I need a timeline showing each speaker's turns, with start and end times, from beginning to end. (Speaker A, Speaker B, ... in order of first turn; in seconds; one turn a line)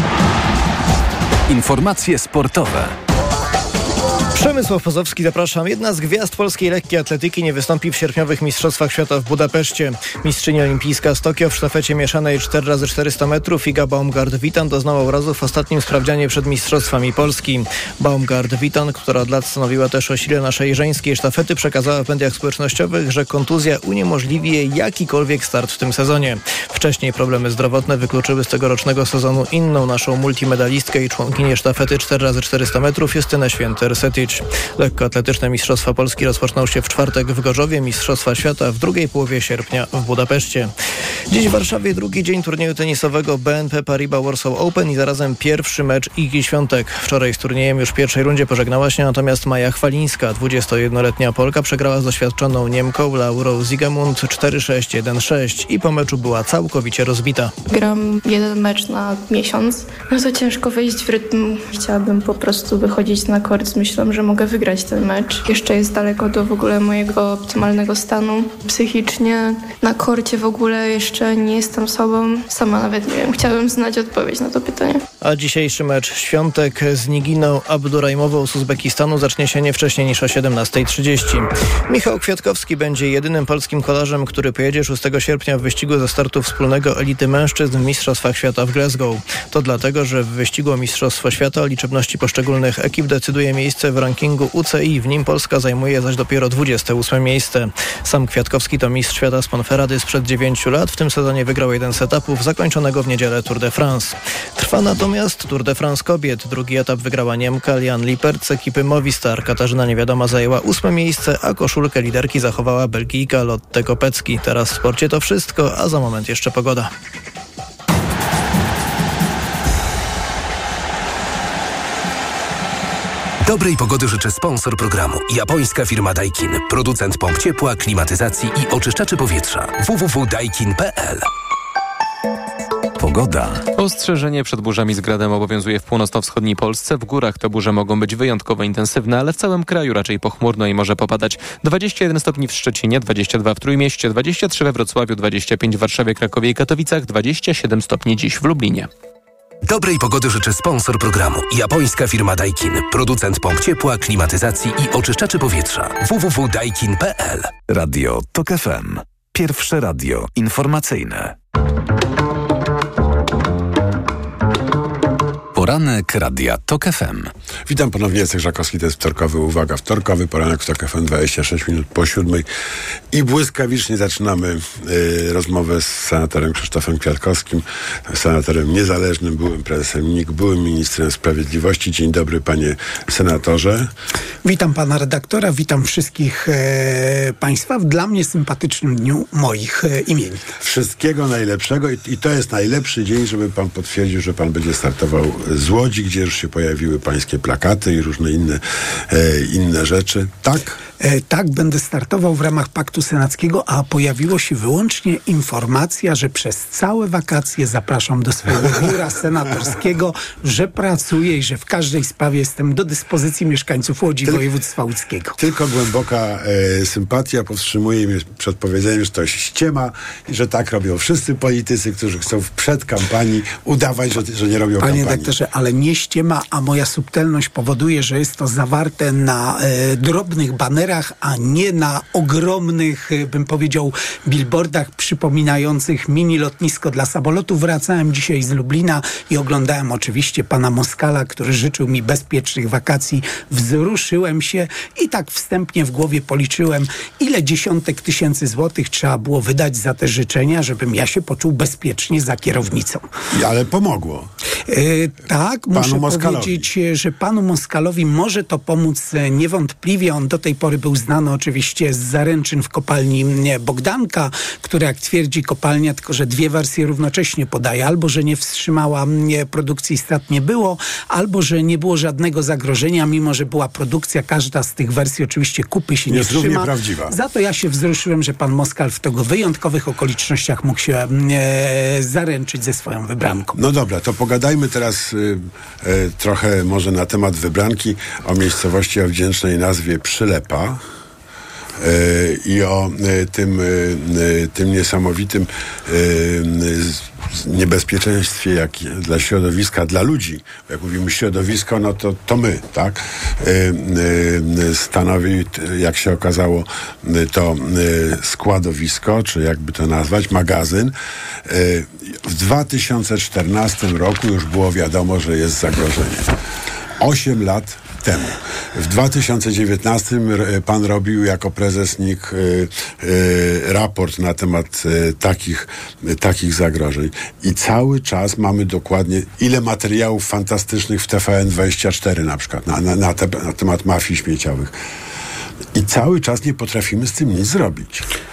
Speaker A: 1.5-3.0
Speaker B: 4.3-40.7
Speaker B: 41.3-57.5
Speaker C: 57.7-75.0
Speaker B: 75.2-116.9
Speaker D: 123.4-131.3
Speaker A: 133.0-133.6
Speaker E: 133.8-148.9
Speaker D: 149.6-157.5
Speaker A: 157.7-161.3
Speaker A: 165.5-167.3
Speaker F: 167.7-172.4
Speaker F: 173.1-183.9
Speaker G: 184.4-190.4
Speaker F: 190.6-200.8
Speaker G: 201.0-215.3
Speaker F: 215.4-225.3
Speaker G: 224.8-253.0
Speaker F: 253.3-254.3
Speaker G: 254.7-283.5
Speaker F: 255.7-256.7
Speaker F: 276.1-277.1
Speaker F: 283.5-290.8
Speaker F: 291.8-310.9
Speaker F: 311.4-316.2
Speaker F: 317.0-334.7
Speaker F: 335.7-338.0